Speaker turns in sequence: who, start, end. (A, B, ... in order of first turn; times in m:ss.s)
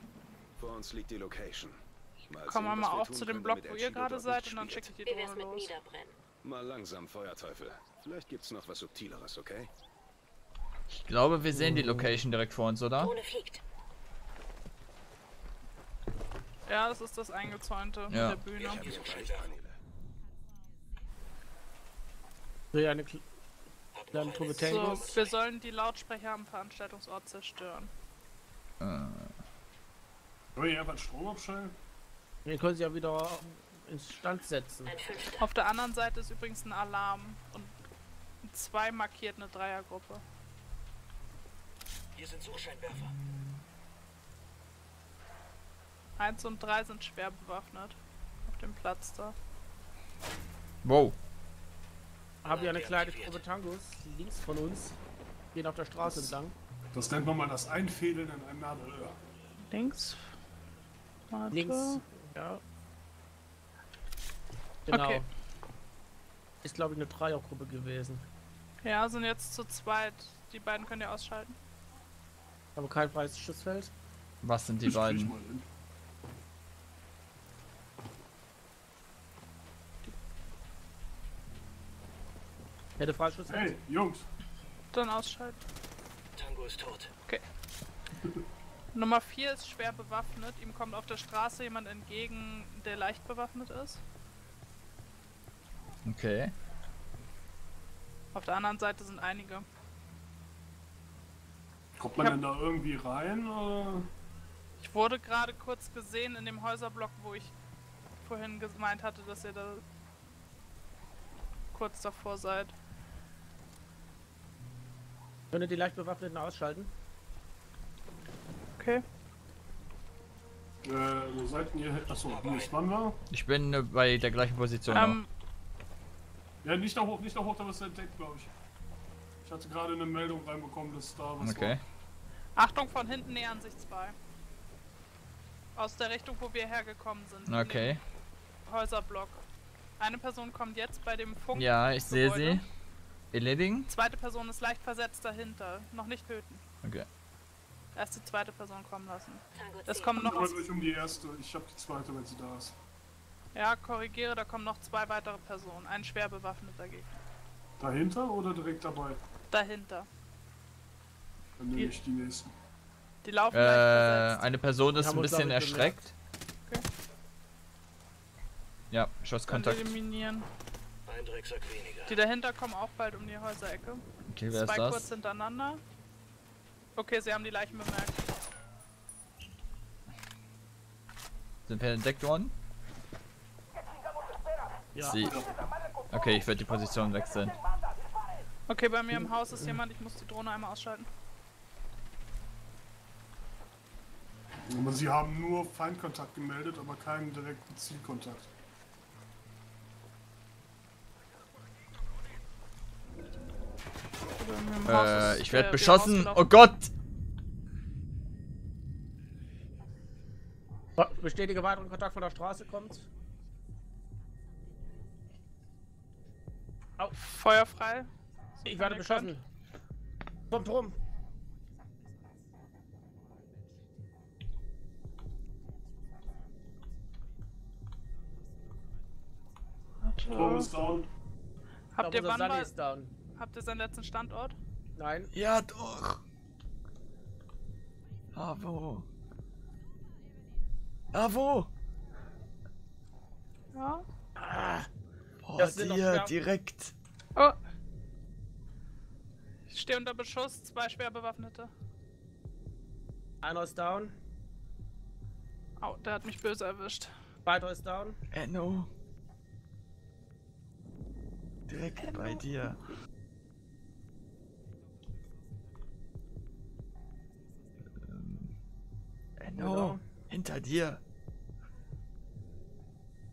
0:00.6-0:04.9 A
0:02.5-0:05.8 B
0:05.0-0:06.2 C
0:06.4-0:09.7 A
0:10.9-0:13.1 D
0:11.5-0:12.2 E
0:13.0-0:13.6 C
0:16.7-0:18.9 B
0:18.1-0:18.4 D
0:18.6-0:19.5 F
0:18.6-0:19.8 A
0:22.7-0:23.2 E
0:23.9-0:25.4 F
0:24.1-0:25.1 E
0:24.6-0:27.9 B
0:28.8-0:29.3 D
0:30.6-0:31.8 G
0:32.5-0:35.0 E
0:34.9-0:35.5 C
0:35.4-0:37.7 B
0:38.4-0:40.2 B
0:42.2-0:43.1 F
0:43.1-0:43.6 D
0:46.2-0:49.4 B
0:50.8-0:51.2 D
0:52.4-0:55.0 E
0:52.5-0:53.4 F
0:55.5-0:56.6 E
0:56.9-0:59.2 G
0:59.7-1:00.3 B
1:01.3-1:02.0 B
1:01.5-1:02.6 E
1:04.9-1:05.3 E
1:04.9-1:05.2 B
1:06.6-1:08.3 E
1:08.8-1:11.6 B
1:12.8-1:13.9 E
1:14.4-1:15.3 D
1:14.8-1:15.7 G
1:23.0-1:23.8 E
1:23.5-1:24.3 G
1:24.9-1:25.6 B
1:26.4-1:27.1 F
1:28.9-1:34.0 B
1:36.0-1:36.5 D
1:38.3-1:39.7 B
1:42.0-1:44.1 G
1:44.8-1:47.5 B
1:48.2-1:49.8 B
1:51.7-1:52.7 B
1:55.5-1:56.9 E
1:58.8-1:59.0 B
2:00.8-2:03.2 G
2:02.2-2:02.8 F
2:03.3-2:05.2 D
2:04.9-2:05.3 B
2:06.6-2:08.5 G
2:09.4-2:11.8 G
2:11.4-2:11.8 D
2:12.6-2:14.2 B
2:15.8-2:17.9 B
2:17.5-2:18.0 D
2:18.7-2:19.4 B
2:20.0-2:22.6 B
2:21.6-2:22.6 D
2:23.3-2:23.9 D
2:23.9-2:26.6 B
2:28.0-2:30.6 B
2:29.5-2:30.5 C
2:30.2-2:32.8 G
2:33.5-2:37.2 B
2:37.8-2:39.2 G
2:39.5-2:40.1 B
2:41.6-2:42.5 G
2:43.2-2:44.4 B
2:43.5-2:46.1 D
2:45.0-2:46.0 E
2:48.9-2:50.0 D
2:49.5-2:50.5 B
2:51.1-2:52.2 F
2:52.1-2:55.8 B
2:54.3-2:55.1 D
2:57.0-2:58.3 B
3:01.7-3:02.6 D
3:05.0-3:05.3 E
3:05.0-3:05.4 D
3:05.2-3:05.5 G
3:06.1-3:07.6 D
3:08.7-3:11.1 B
3:09.2-3:09.8 E
3:14.7-3:18.5 G
3:24.3-3:26.5 B
3:24.8-3:26.9 D
3:31.0-3:33.1 E
3:37.1-3:39.3 B
3:38.7-3:39.4 E
3:40.5-3:41.0 E
3:50.0-3:50.7 B
3:50.3-3:51.1 G
3:51.9-3:52.7 B
3:52.0-3:53.1 E
3:53.4-3:54.6 B
3:55.0-3:55.3 E
3:55.3-3:56.2 D
3:58.3-3:59.1 D
4:01.1-4:01.7 D
4:03.7-4:04.0 B
4:04.4-4:04.9 E
4:05.4-4:07.0 D
4:05.6-4:06.4 E
4:09.7-4:11.7 B
4:13.4-4:14.2 E
4:15.8-4:17.1 B
4:17.4-4:18.2 E
4:18.3-4:18.9 D
4:21.7-4:22.8 D
4:22.0-4:22.4 B
4:28.0-4:28.5 D
4:29.4-4:31.0 D
4:29.6-4:30.0 E